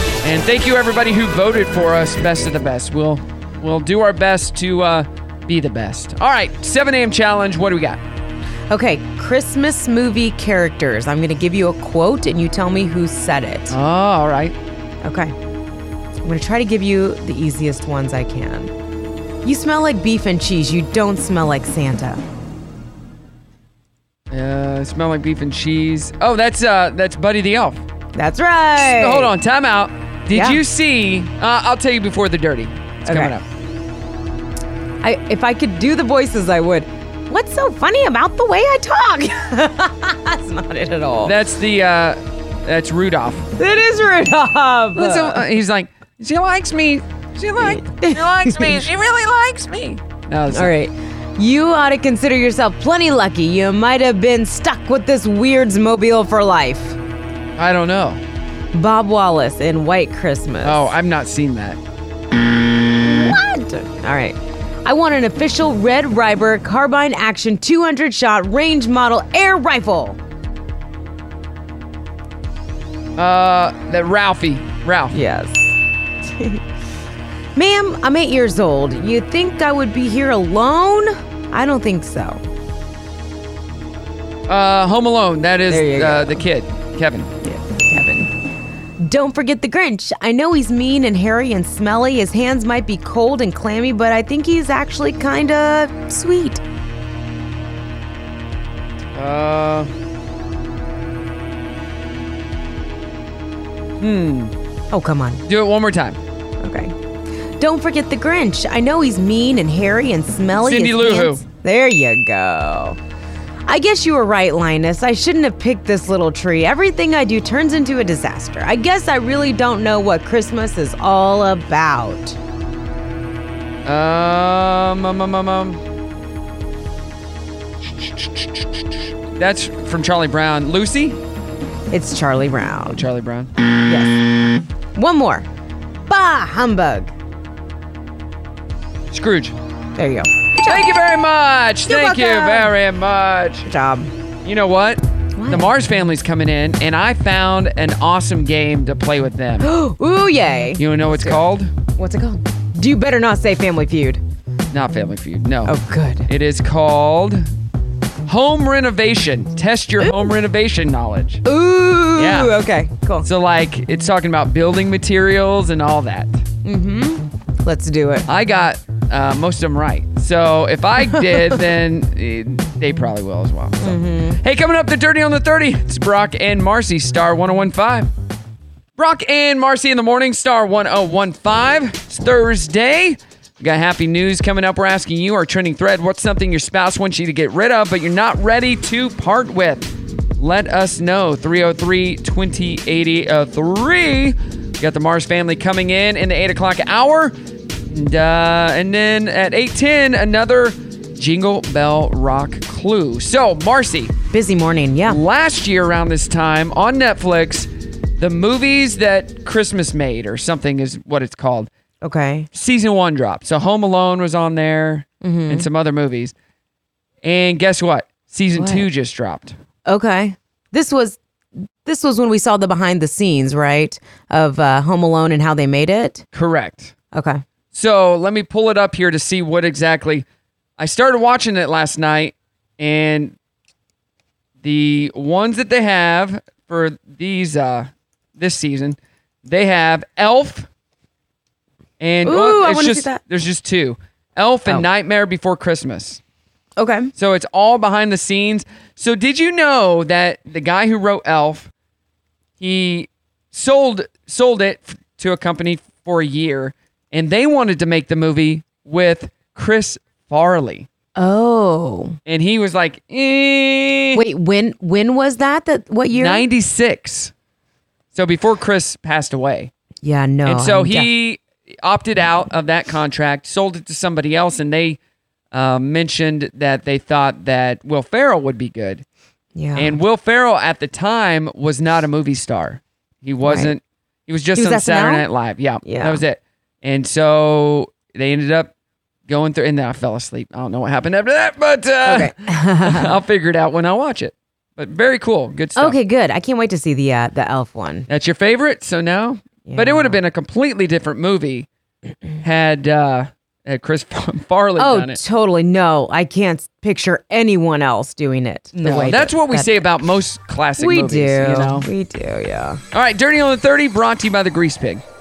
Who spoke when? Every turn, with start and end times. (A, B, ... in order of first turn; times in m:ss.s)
0:00.2-0:08.0 A
0:08.7-0:13.7 B
0:13.7-0:14.6 A
0:15.0-0:15.3 B
0:16.2-0:18.7 B
0:19.4-0:22.2 B
0:24.3-0:27.8 A
0:28.2-0:29.3 B
0:28.9-0:33.4 A
0:30.3-0:30.6 B
0:33.1-0:33.3 B
0:35.0-0:41.4 B
0:41.2-0:43.5 A
0:43.6-0:45.4 B
0:45.0-0:50.7 A
0:47.6-0:48.8 B
0:50.5-0:57.0 B
0:57.6-0:58.2 A
0:58.7-1:00.9 B
1:00.6-1:01.8 A
1:03.0-1:10.2 B
1:13.2-1:15.2 A
1:15.1-1:15.7 B
1:16.2-1:16.6 B
1:17.6-1:22.4 B
1:24.5-1:27.3 A
1:25.7-1:26.4 B
1:27.4-1:28.3 B
1:29.0-1:36.6 B
1:39.2-1:39.9 A
1:44.0-1:44.5 A
1:44.9-1:45.4 B
1:45.5-1:46.2 A
1:46.6-1:46.9 B
1:47.6-1:53.0 B
1:50.6-1:51.4 A
1:53.7-2:02.4 B
2:03.9-2:05.8 A
2:07.9-2:11.2 A
2:11.9-2:13.0 B
2:12.9-2:13.5 A
2:13.9-2:14.2 B
2:15.0-2:15.5 B
2:16.1-2:17.1 B
2:19.1-2:19.6 A
2:20.0-2:20.9 B
2:20.7-2:23.7 A
2:21.9-2:22.7 B
2:23.7-2:24.1 B
2:24.4-2:29.7 A
2:25.4-2:25.7 B
2:29.6-2:31.4 B
2:30.8-2:31.7 A
2:32.0-2:34.2 B
2:34.7-2:35.8 A
2:35.7-2:36.3 B
2:36.3-2:37.5 A
2:38.3-2:41.4 A
2:40.0-2:40.3 B
2:41.4-2:43.3 B
2:42.2-2:42.5 A
2:43.2-2:46.4 A
2:46.6-2:48.3 B
2:48.3-2:58.1 A
2:51.0-2:51.6 B
2:53.8-2:54.4 B
2:59.0-3:17.4 A
3:17.9-3:24.2 A
3:24.3-3:25.2 B
3:25.1-3:31.7 A
3:32.0-3:32.5 B
3:32.5-3:36.3 A
3:35.2-3:35.7 B
3:37.2-3:39.6 A
3:38.6-3:38.9 B
3:39.9-3:41.2 B
3:41.8-3:46.2 B
3:46.3-3:46.9 A
3:47.1-3:47.4 B
3:47.7-3:50.2 A
3:50.8-3:53.4 A
3:54.6-4:00.7 A
4:02.0-4:06.2 A
4:02.2-4:03.2 B
4:06.8-4:07.1 B
4:07.2-4:11.7 A
4:12.6-4:20.9 A
4:21.2-4:22.2 B
4:22.3-4:24.2 A
4:24.2-4:26.4 B
4:26.1-4:27.3 A
4:28.1-4:29.7 A
4:30.0-4:31.1 B
4:30.5-4:35.0 A
4:35.5-4:39.0 A
4:39.6-4:40.0 B
4:39.8-4:48.7 A
4:43.4-4:43.7 B
4:44.6-4:45.2 B
4:45.8-4:46.2 B
4:49.3-4:52.3 A
4:52.0-4:53.1 B
4:52.8-4:56.0 A
4:55.8-4:58.1 B
4:58.1-5:01.7 A
4:59.7-5:00.2 B
5:02.4-5:05.2 A
5:04.8-5:09.7 B
5:08.8-5:11.9 A
5:10.8-5:12.8 B
5:12.9-5:15.0 A